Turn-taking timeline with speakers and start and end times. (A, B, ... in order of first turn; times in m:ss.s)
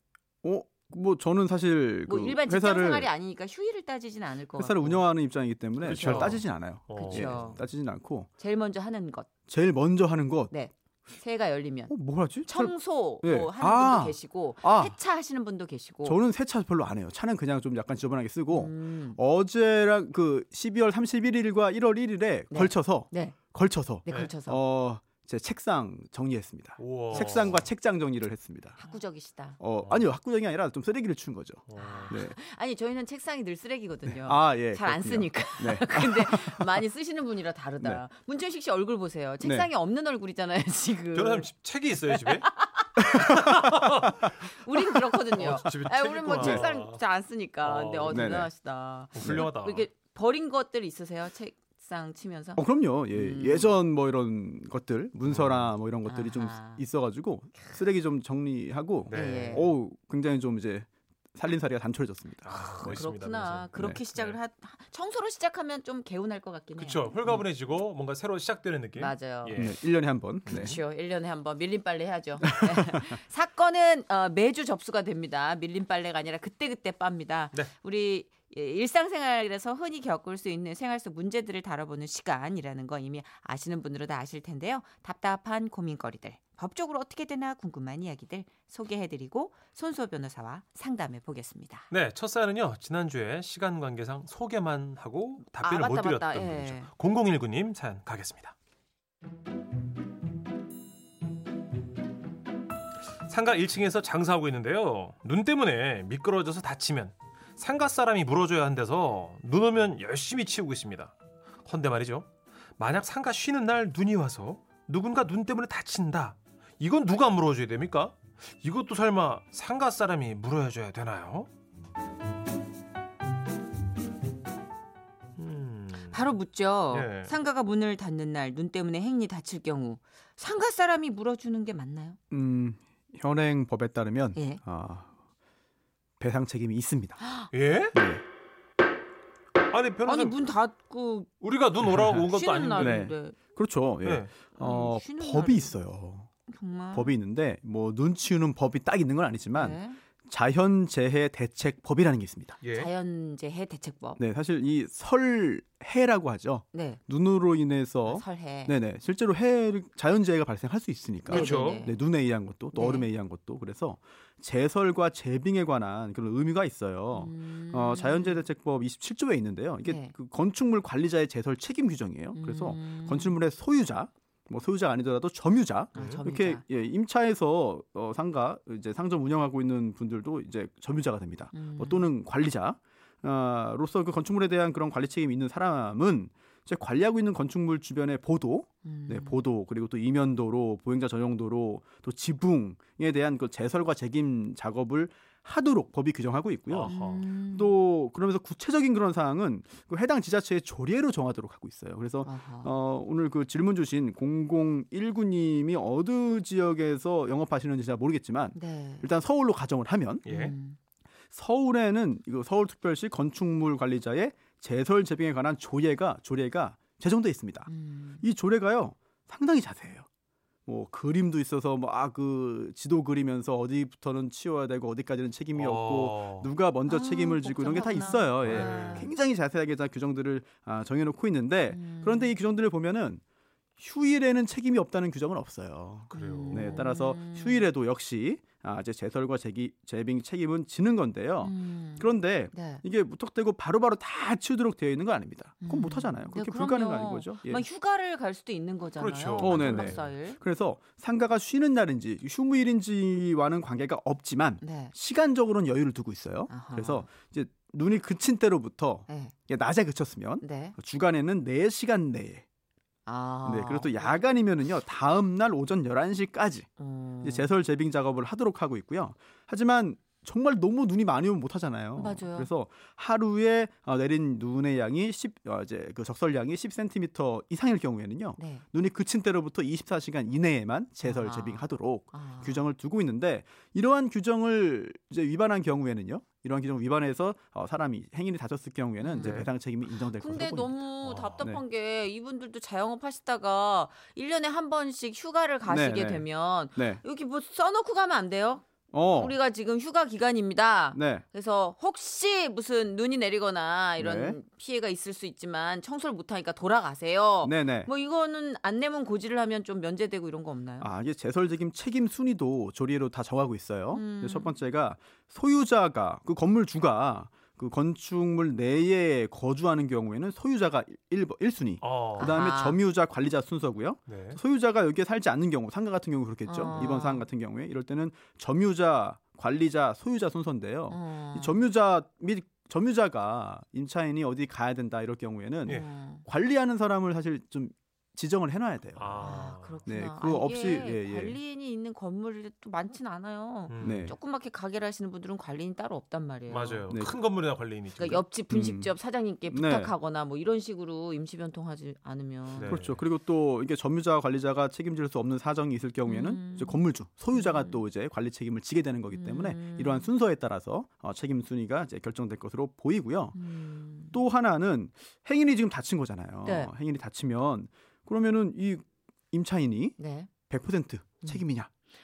0:00.4-0:03.1 A
0:02.1-0:05.0 B
0:04.6-0:08.3 A
0:05.8-0:07.5 C
0:05.9-0:06.4 B
0:06.9-0:07.7 B
0:08.4-0:09.3 B
0:09.5-0:10.5 A
0:10.5-0:16.2 B
0:11.9-0:15.0 A
0:16.0-0:28.8 A
0:18.5-0:19.2 B
0:22.5-0:23.4 B
0:24.0-0:24.6 B
0:26.8-0:27.7 C
0:27.1-0:27.4 B
0:28.8-0:29.6 B
0:29.6-0:32.4 A
0:29.8-0:30.1 C
0:31.7-0:32.1 C
0:31.8-0:41.5 B
0:34.0-0:36.8 A
0:39.4-0:39.7 A
0:41.1-0:42.5 C
0:42.1-0:43.2 B
0:43.0-0:44.3 A
0:43.0-0:44.3 C
0:44.4-0:53.7 B
0:45.3-0:47.0 C
0:45.6-0:46.7 A
0:47.6-0:48.4 C
0:48.1-0:48.5 A
0:49.1-0:49.9 C
0:49.2-0:49.5 A
0:52.6-1:03.1 A
0:55.2-0:55.7 C
0:56.0-0:56.8 B
0:59.1-0:59.7 C
0:59.1-0:59.7 B
1:02.4-1:04.4 C
1:02.5-1:07.3 B
1:03.8-1:04.0 A
1:06.8-1:09.8 C
1:09.0-1:09.6 B
1:09.5-1:10.8 A
1:10.5-1:10.8 C
1:10.5-1:31.8 B
1:12.4-1:13.1 A
1:31.9-1:38.5 C
1:35.6-1:36.9 B
1:43.2-1:51.1 C
1:51.6-2:01.5 C
2:05.4-2:06.3 C
2:06.1-2:12.2 B
2:06.9-2:07.3 C
2:12.3-2:15.1 A
2:14.3-2:14.6 B
2:16.2-2:17.2 A
2:17.2-2:17.5 B
2:17.5-2:18.0 C
2:17.9-2:18.2 A
2:19.7-2:20.4 C
2:20.0-2:21.3 B
2:21.4-2:23.1 C
2:21.8-2:22.2 A
2:22.2-2:23.4 B
2:22.8-2:26.3 A
2:24.0-2:24.3 C
2:24.6-2:25.8 B
2:26.5-2:27.1 B
2:26.9-2:32.6 A
2:29.5-2:30.0 B
2:32.6-2:32.9 C
2:32.7-2:34.2 B
2:34.2-3:17.0 A
2:36.7-2:37.0 B
2:38.1-2:38.8 B
2:41.3-2:41.8 C
2:41.3-2:42.0 B
2:42.7-2:43.1 B
2:47.1-2:48.4 B
2:49.8-2:50.1 B
2:52.3-2:53.4 B
2:55.9-2:56.6 B
2:56.0-2:56.2 C
3:01.5-3:02.0 B
3:08.8-3:09.4 B
3:16.7-3:17.3 C
3:16.8-3:17.8 B
3:17.5-3:30.3 A
3:22.2-3:22.7 B
3:28.5-3:29.1 B
3:30.2-3:30.6 C
3:30.3-3:30.8 B
3:31.3-3:37.7 A
3:37.7-3:38.2 B
3:38.2-3:40.0 A
3:40.7-3:53.2 A
3:45.5-3:46.5 C
3:46.9-3:49.1 B
3:48.4-3:49.1 C
3:51.7-3:52.3 B
3:53.8-4:07.6 A
3:56.1-3:56.8 C
3:56.1-3:57.7 B
4:01.4-4:02.8 B
4:05.6-4:10.4 B
4:09.0-4:10.0 C
4:09.4-4:22.4 A
4:14.6-4:14.9 B
4:16.5-4:17.1 B
4:19.1-4:19.3 B
4:20.4-4:20.8 B
4:23.0-4:24.2 B
4:23.4-4:26.7 A
4:26.8-4:27.5 B
4:27.2-4:50.8 A
4:32.0-4:32.5 B
4:38.4-4:38.6 B
4:41.0-4:42.7 B
4:49.0-4:49.5 B
4:49.2-4:49.5 C
4:50.1-5:10.9 B
4:51.0-4:51.4 C
4:55.6-4:57.0 A
4:58.9-4:59.4 A
5:00.9-5:01.2 A
5:04.0-5:04.4 A
5:07.4-5:07.9 A
5:10.8-5:41.4 A
5:13.9-5:14.5 B
5:21.8-5:22.3 C
5:22.2-5:22.8 B
5:24.1-5:24.4 C
5:26.5-5:27.3 B
5:30.9-5:31.6 B
5:35.7-5:36.2 B
5:39.0-5:39.8 C
5:39.2-5:46.9 B
5:43.7-5:44.1 C
5:43.8-5:44.1 A
5:46.5-5:48.2 C
5:46.9-5:47.2 A
5:48.0-5:52.8 B
5:48.5-5:49.0 A
5:49.5-5:49.9 A
5:52.6-5:53.0 C
5:52.6-6:03.4 A
5:56.0-5:57.8 B
5:59.1-6:00.1 B
6:03.3-6:04.2 B
6:04.1-6:10.0 A
6:06.4-6:06.7 B
6:10.0-6:10.3 B
6:10.5-6:11.7 A